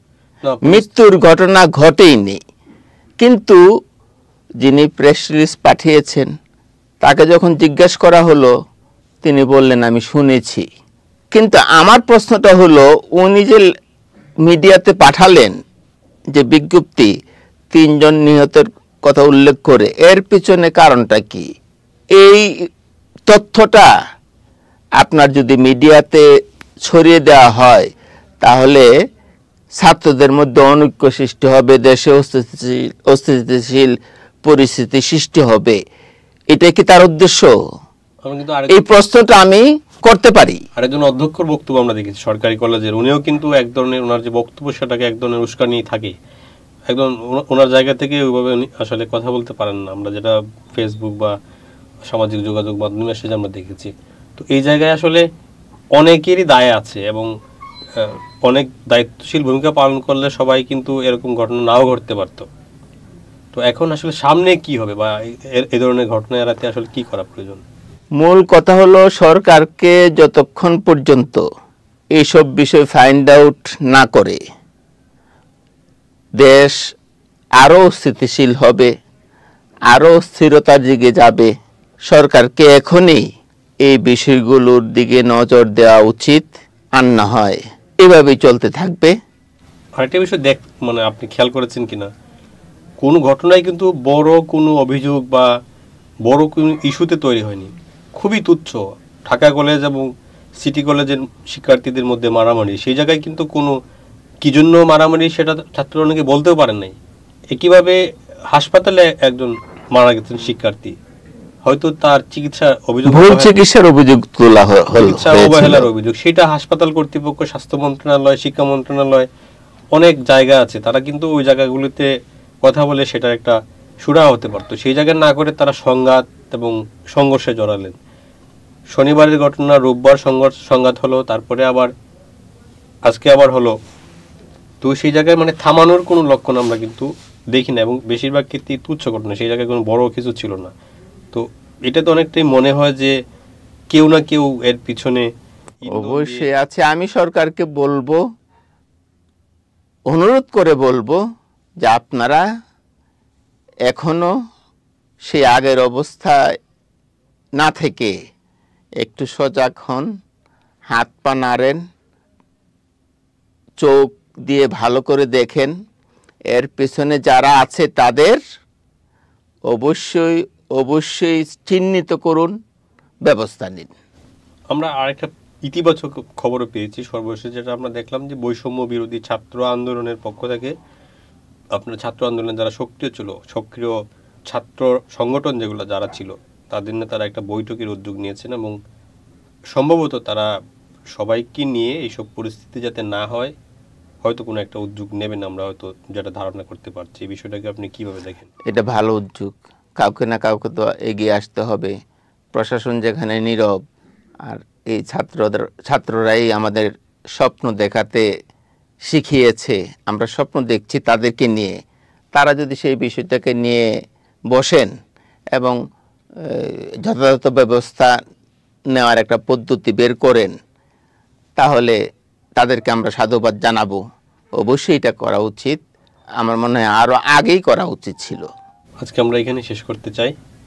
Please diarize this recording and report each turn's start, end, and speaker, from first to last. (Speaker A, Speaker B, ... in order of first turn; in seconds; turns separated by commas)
Speaker A: 0.5-0.9, Speaker B: 0.7-2.4, Speaker B: 3.2-3.6, Speaker B: 4.6-6.3, Speaker B: 7.0-8.5, Speaker B: 9.2-10.7, Speaker B: 11.3-13.6, Speaker B: 14.5-15.6, Speaker B: 16.3-17.1, Speaker B: 17.7-21.5, Speaker B: 22.2-22.5, Speaker B: 23.3-23.9, Speaker B: 25.0-26.2, Speaker B: 26.9-27.9, Speaker B: 28.4-28.9, Speaker B: 29.8-33.9, Speaker B: 34.5-35.8, Speaker B: 36.5-37.5, Speaker A: 38.2-38.9, Speaker B: 38.7-40.6, Speaker A: 40.8-46.1, Speaker A: 46.9-51.4, Speaker A: 52.1-55.2, Speaker A: 56.0-57.3, Speaker A: 58.0-62.5, Speaker A: 63.5-67.6, Speaker B: 68.2-71.4, Speaker B: 72.2-74.4, Speaker B: 76.4-76.8, Speaker B: 77.6-78.9, Speaker B: 79.9-81.5, Speaker B: 82.1-83.2, Speaker B: 83.8-89.1, Speaker A: 90.0-92.1, Speaker A: 93.0-95.5, Speaker A: 96.2-100.0, Speaker A: 100.6-103.8, Speaker A: 104.4-107.0, Speaker A: 107.5-108.0, Speaker A: 108.5-111.0, Speaker A: 111.7-113.6, Speaker B: 113.1-115.9, Speaker A: 114.9-119.3, Speaker A: 120.0-122.1, Speaker A: 122.6-128.0, Speaker A: 128.9-131.9, Speaker A: 133.1-133.8, Speaker A: 134.8-140.7, Speaker A: 141.3-143.1, Speaker A: 143.9-145.3, Speaker A: 145.8-146.5, Speaker B: 145.9-148.2, Speaker B: 150.1-151.2, Speaker B: 151.8-152.4, Speaker B: 153.9-154.3, Speaker B: 155.3-156.4, Speaker B: 157.6-158.2, Speaker B: 159.0-160.1, Speaker B: 160.9-161.8, Speaker B: 163.8-165.7, Speaker B: 166.5-168.4, Speaker B: 169.7-172.5, Speaker B: 173.2-173.9, Speaker A: 174.7-180.8, Speaker A: 181.8-183.9, Speaker A: 184.5-188.8, Speaker A: 189.7-190.5, Speaker A: 191.2-193.5, Speaker A: 194.2-198.5, Speaker B: 198.7-201.9, Speaker B: 202.5-203.8, Speaker B: 204.5-208.2, Speaker B: 209.1-211.7, Speaker B: 212.3-213.8, Speaker B: 214.5-214.9, Speaker B: 216.5-218.1, Speaker B: 218.9-220.5, Speaker B: 221.6-221.9, Speaker B: 222.6-224.0, Speaker B: 224.6-225.8, Speaker B: 226.4-228.5, Speaker A: 229.0-230.3